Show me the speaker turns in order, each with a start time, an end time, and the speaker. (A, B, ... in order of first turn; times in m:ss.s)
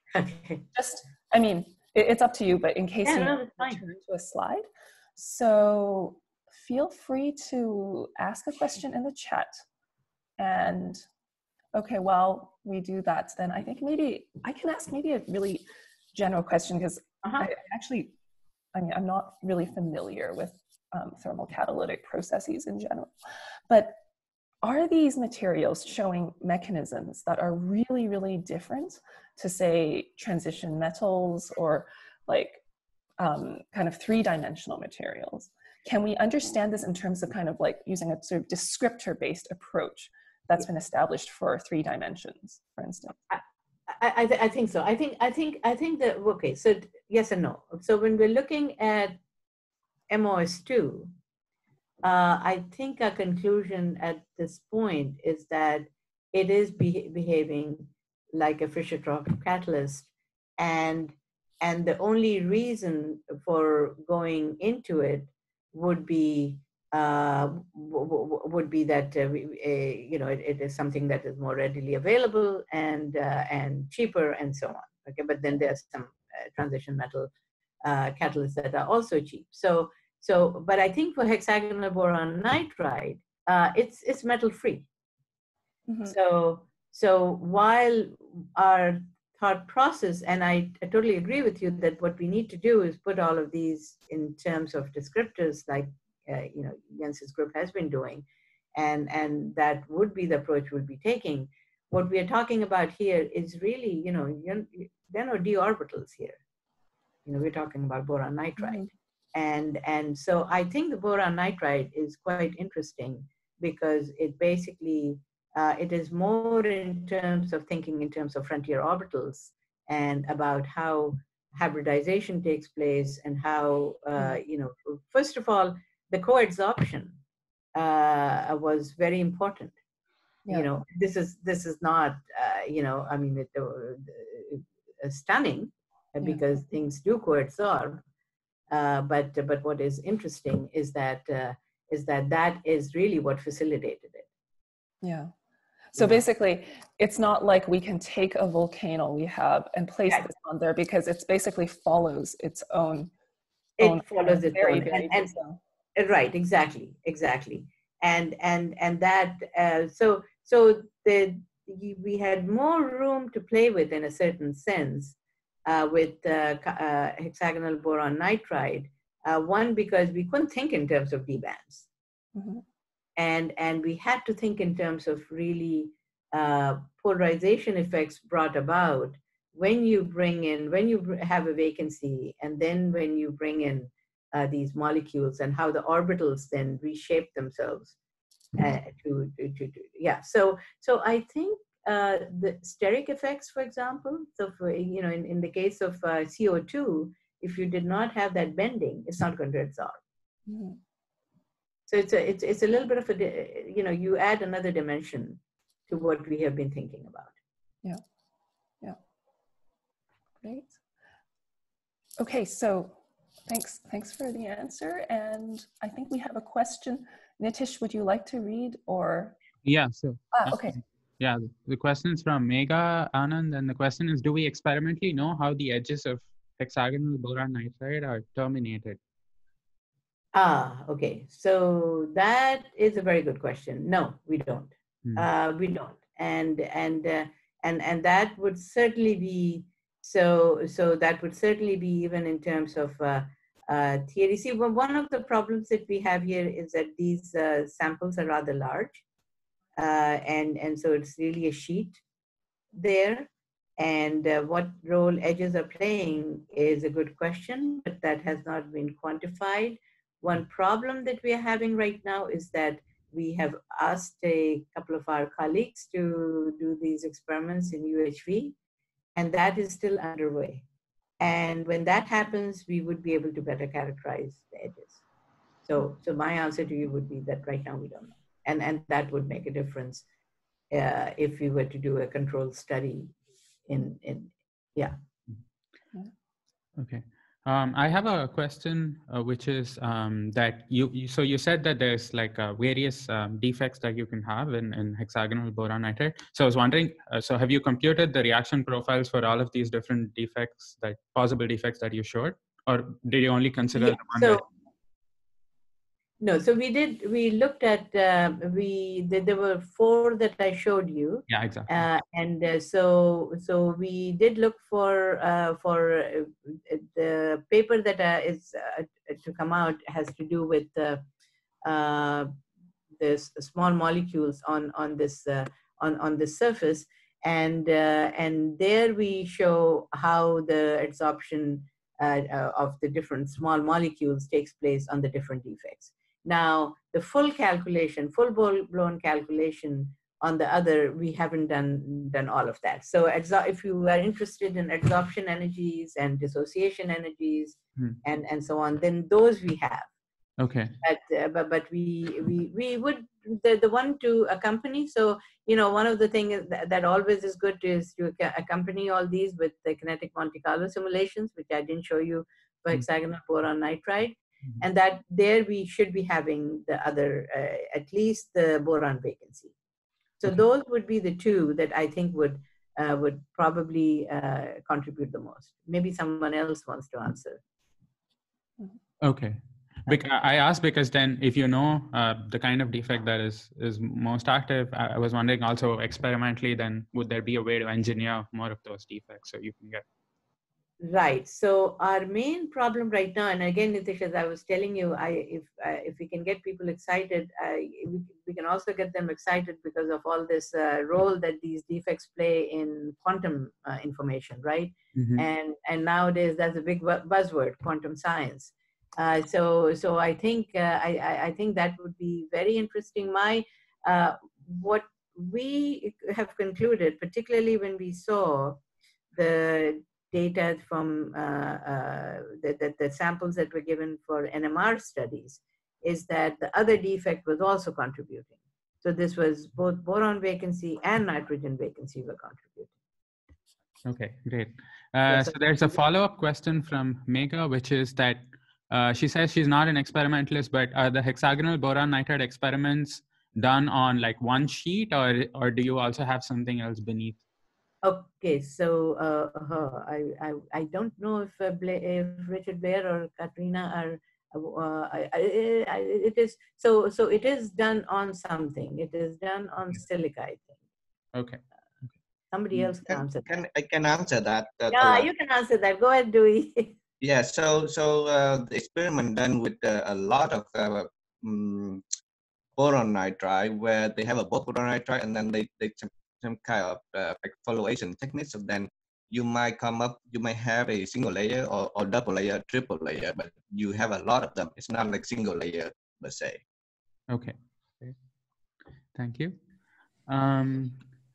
0:00.1-0:00.6 A
0:00.7-0:09.6 B
0:03.0-0:03.8 A
0:10.4-0:11.0 B
0:11.7-0:18.2 B
0:18.7-0:23.1 B
0:23.7-0:24.0 B
0:24.6-0:32.6 B
0:33.2-0:43.2 B
0:43.3-0:49.2 A
0:50.1-0:51.1 A
0:52.0-1:17.3 A
1:17.8-1:24.9 A
1:25.9-1:26.2 B
1:26.0-1:46.4 A
1:47.3-2:07.2 A
1:48.6-1:48.9 B
2:07.8-2:09.8 A
2:10.5-2:18.0 A
2:18.7-2:24.3 A
2:25.0-2:25.3 B
2:25.9-2:33.1 B
2:33.8-2:35.4 A
2:33.8-2:35.6 B
2:36.0-2:51.9 A
2:52.4-2:52.6 B
2:53.2-3:08.0 A
3:08.6-3:20.0 A
3:20.5-3:20.8 B
3:21.9-3:27.4 A
3:30.4-3:30.8 B
3:32.2-3:39.4 B
3:39.6-3:49.0 C
3:40.3-3:40.8 B
3:50.3-4:09.0 A
4:09.8-4:12.0 A
4:12.7-4:28.6 A
4:29.2-4:30.6 A
4:31.2-4:35.0 A
4:35.7-4:40.1 A
4:40.7-4:43.2 A
4:43.7-4:45.0 A
4:46.8-5:04.4 C
5:03.8-5:04.4 A
5:06.2-5:21.0 A
5:11.3-5:11.8 C
5:21.6-5:22.3 A
5:23.0-5:49.9 A
5:50.4-5:50.8 C
5:50.8-6:09.6 A
6:10.2-6:17.4 A
6:19.0-6:29.8 C
6:30.8-6:58.6 A
6:45.0-6:45.2 C
6:59.1-7:12.7 A
7:13.9-7:27.2 C
7:15.1-7:15.8 A
7:27.8-7:40.6 A
7:41.1-7:41.4 C
7:42.3-7:43.5 A
7:42.9-7:45.1 D
7:44.7-7:46.8 A
7:47.0-7:51.8 D
7:52.6-8:06.4 D
8:07.1-8:08.0 C
8:08.9-8:09.4 C
8:10.1-8:10.8 C